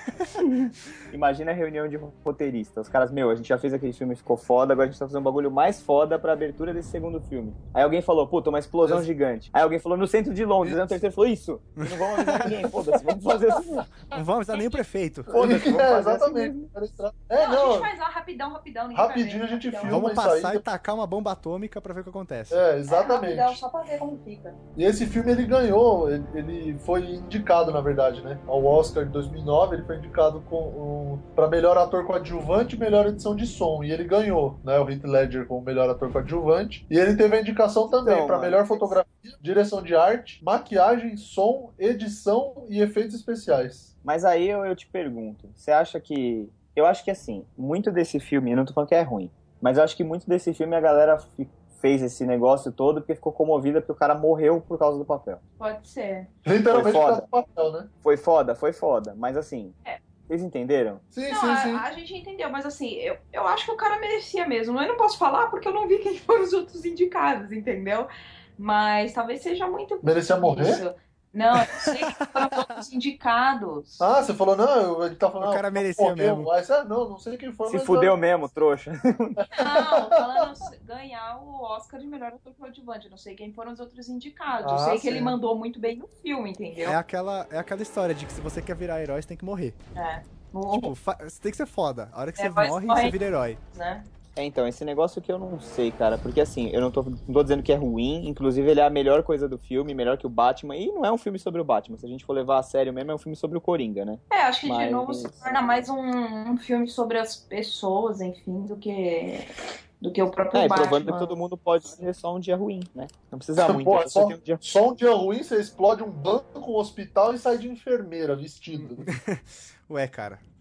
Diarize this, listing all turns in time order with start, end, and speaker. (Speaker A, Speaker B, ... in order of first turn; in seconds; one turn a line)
Speaker A: 0.4-13.9
Speaker B: 10.6-11.0
Speaker C: 11.8-12.6
Speaker C: 14.1-15.3
Speaker D: 14.5-14.8
Speaker A: 15.3-16.7
Speaker B: 15.3-17.9
Speaker D: 17.4-20.1
Speaker B: 18.9-20.6
Speaker C: 19.9-22.6
Speaker B: 22.5-23.6
Speaker D: 22.9-24.6
Speaker B: 24.8-43.9
Speaker A: 37.9-39.0
Speaker A: 44.0-55.4
Speaker D: 55.6-56.3
Speaker B: 56.5-57.9
Speaker A: 56.7-57.3
Speaker A: 58.0-59.8
Speaker A: 60.3-61.0
Speaker B: 61.1-61.9
Speaker D: 61.3-74.1
Speaker B: 70.0-70.8
Speaker C: 71.6-72.8
Speaker B: 74.0-78.2
Speaker C: 75.4-76.5
Speaker A: 77.7-79.4
Speaker B: 79.4-80.4
Speaker D: 79.5-87.0
Speaker B: 84.6-85.4
Speaker C: 86.8-89.8
Speaker D: 90.0-90.9
Speaker C: 90.7-93.6
Speaker D: 92.4-93.2
Speaker D: 93.7-94.1
Speaker A: 94.4-105.8
Speaker D: 104.3-111.3
Speaker A: 110.5-114.6
Speaker B: 113.6-119.1
Speaker C: 118.8-120.4